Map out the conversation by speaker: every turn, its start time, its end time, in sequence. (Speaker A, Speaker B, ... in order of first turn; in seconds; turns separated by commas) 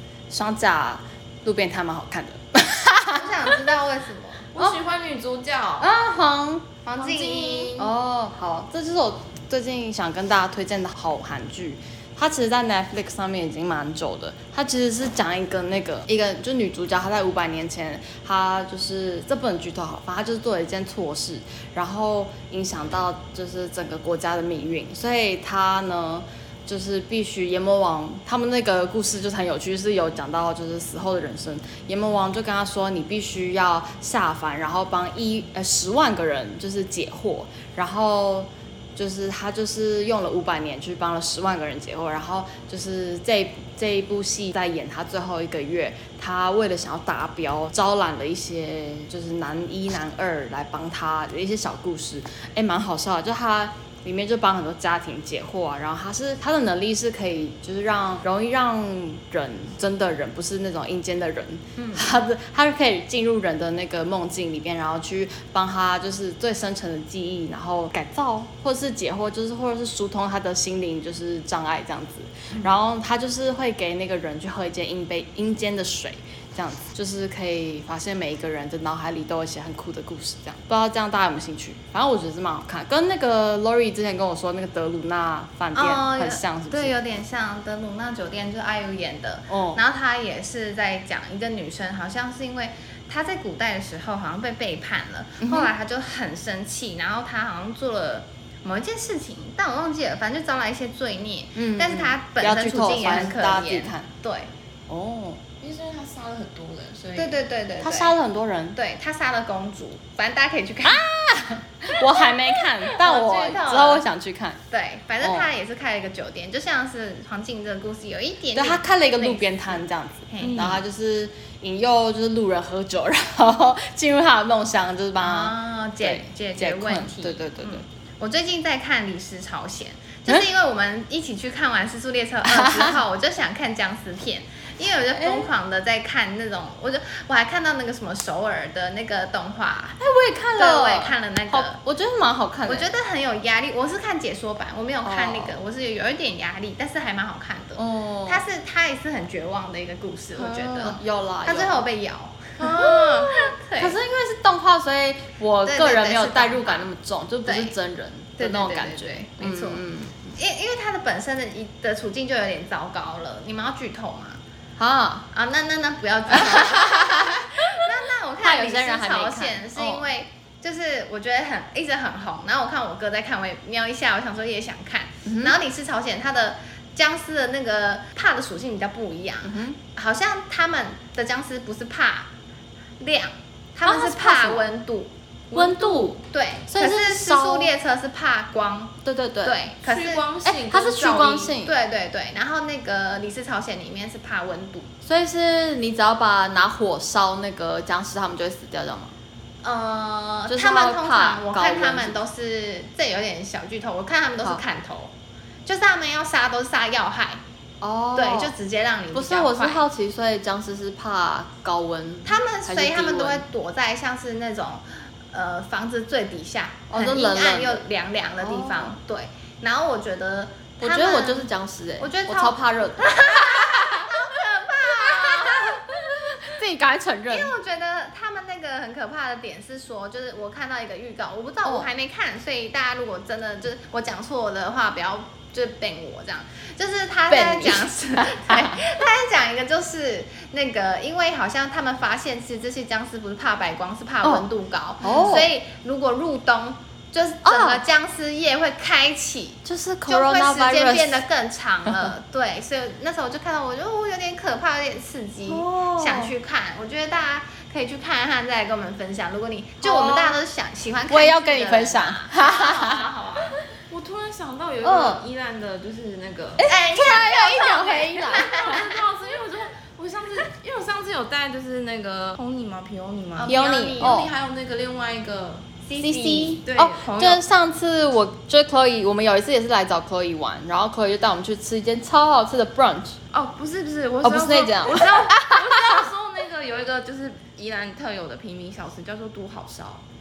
Speaker A: 0.3-3.7, Speaker B: 3.1-4.5, Speaker C: 4.5-6.0, Speaker A: 5.8-6.7, Speaker B: 6.8-7.8, Speaker C: 7.0-7.9, Speaker A: 7.8-87.0, Speaker B: 61.8-62.1, Speaker B: 85.7-104.5, Speaker A: 89.5-89.8, Speaker A: 95.4-95.7, Speaker A: 101.5-104.1, Speaker A: 104.9-105.4, Speaker C: 105.6-107.4, Speaker B: 107.2-108.2, Speaker A: 107.8-108.8, Speaker B: 108.8-111.0, Speaker A: 110.8-114.6, Speaker B: 112.8-114.0, Speaker B: 114.7-119.5, Speaker A: 115.2-115.5, Speaker A: 118.5-127.8, Speaker B: 120.3-120.8, Speaker C: 120.4-120.8, Speaker B: 125.2-140.0, Speaker A: 132.5-133.0, Speaker A: 135.1-135.5, Speaker A: 140.0-142.9, Speaker B: 140.6-141.8, Speaker B: 142.7-154.0, Speaker A: 145.0-145.6, Speaker A: 147.8-148.4, Speaker C: 150.4-151.0, Speaker A: 150.8-151.8, Speaker C: 152.6-153.3, Speaker A: 152.8-160.3, Speaker B: 155.7-156.9, Speaker B: 157.5-157.7, Speaker B: 158.4-159.8, Speaker B: 160.3-164.4, Speaker A: 164.8-165.3, Speaker B: 165.3-182.3, Speaker A: 166.3-167.8, Speaker A: 168.4-170.1, Speaker A: 175.2-175.6, Speaker A: 179.4-179.8, Speaker B: 183.0-190.3, Speaker A: 183.8-184.7, Speaker A: 185.5-187.7, Speaker A: 189.0-189.6, Speaker C: 189.8-191.6, Speaker A: 190.4-191.7, Speaker B: 191.6-194.9, Speaker A: 195.0-199.2, Speaker B: 199.6-205.1, Speaker A: 200.5-202.2, Speaker B: 205.7-207.4, Speaker A: 207.8-208.5, Speaker B: 208.2-209.8, Speaker A: 209.1-213.4, Speaker B: 212.3-221.5, Speaker A: 216.9-217.8, Speaker A: 218.4-219.0, Speaker A: 220.8-224.4, Speaker B: 222.0-225.9, Speaker A: 225.0-227.5, Speaker B: 227.3-263.6, Speaker A: 231.6-231.9, Speaker A: 237.3-238.8, Speaker A: 245.0-245.5, Speaker A: 247.4-247.8, Speaker A: 249.7-251.2, Speaker A: 251.9-252.1, Speaker A: 255.5-256.3, Speaker A: 259.8-260.4, Speaker A: 261.1-263.0, Speaker C: 263.9-266.6, Speaker A: 264.8-265.2, Speaker A: 266.6-268.9, Speaker B: 266.6-268.9, Speaker C: 268.4-277.4, Speaker B: 273.4-274.2, Speaker A: 273.5-274.3, Speaker B: 275.9-276.6, Speaker A: 276.0-283.2, Speaker C: 283.3-290.0, Speaker A: 284.2-286.1